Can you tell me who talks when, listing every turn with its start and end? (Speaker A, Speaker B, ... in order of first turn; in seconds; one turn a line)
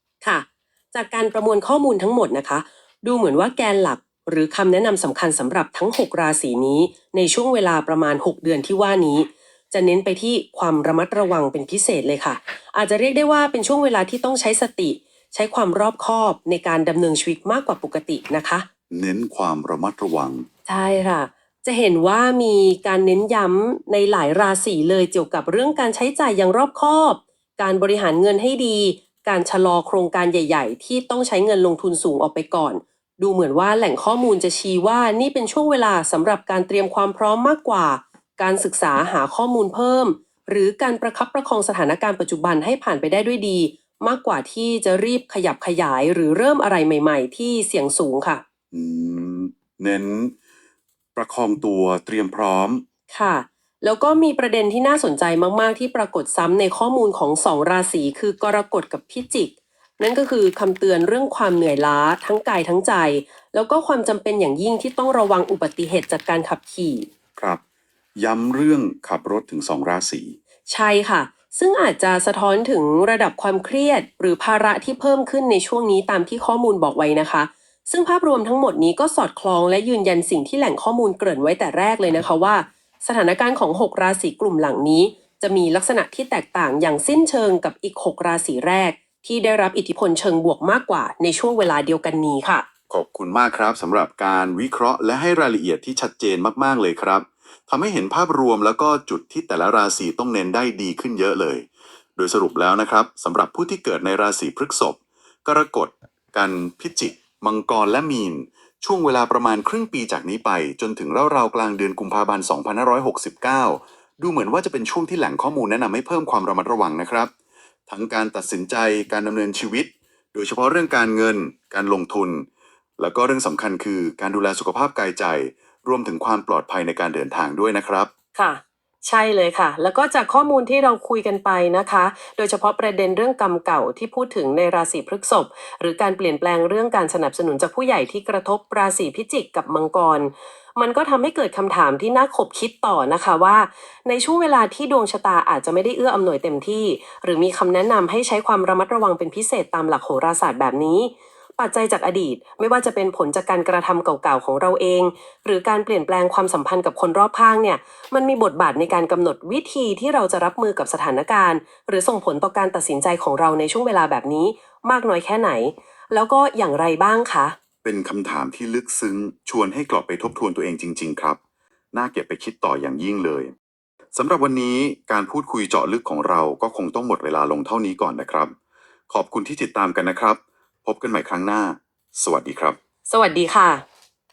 Speaker A: 0.2-18.7
Speaker B: 18.9-20.4
Speaker A: 20.7-48.4
Speaker B: 48.7-50.3
Speaker B: 51.1-52.8
Speaker A: 53.1-67.1
Speaker B: 68.2-70.4
Speaker A: 70.7-92.7
Speaker B: 92.9-117.3
Speaker B: 117.9-122.5
Speaker B: 123.0-128.1
Speaker A: 128.3-167.6
Speaker B: 167.8-171.4
Speaker B: 171.9-173.5
Speaker B: 174.1-178.5
Speaker B: 179.1-182.8
Speaker A: 183.1-183.8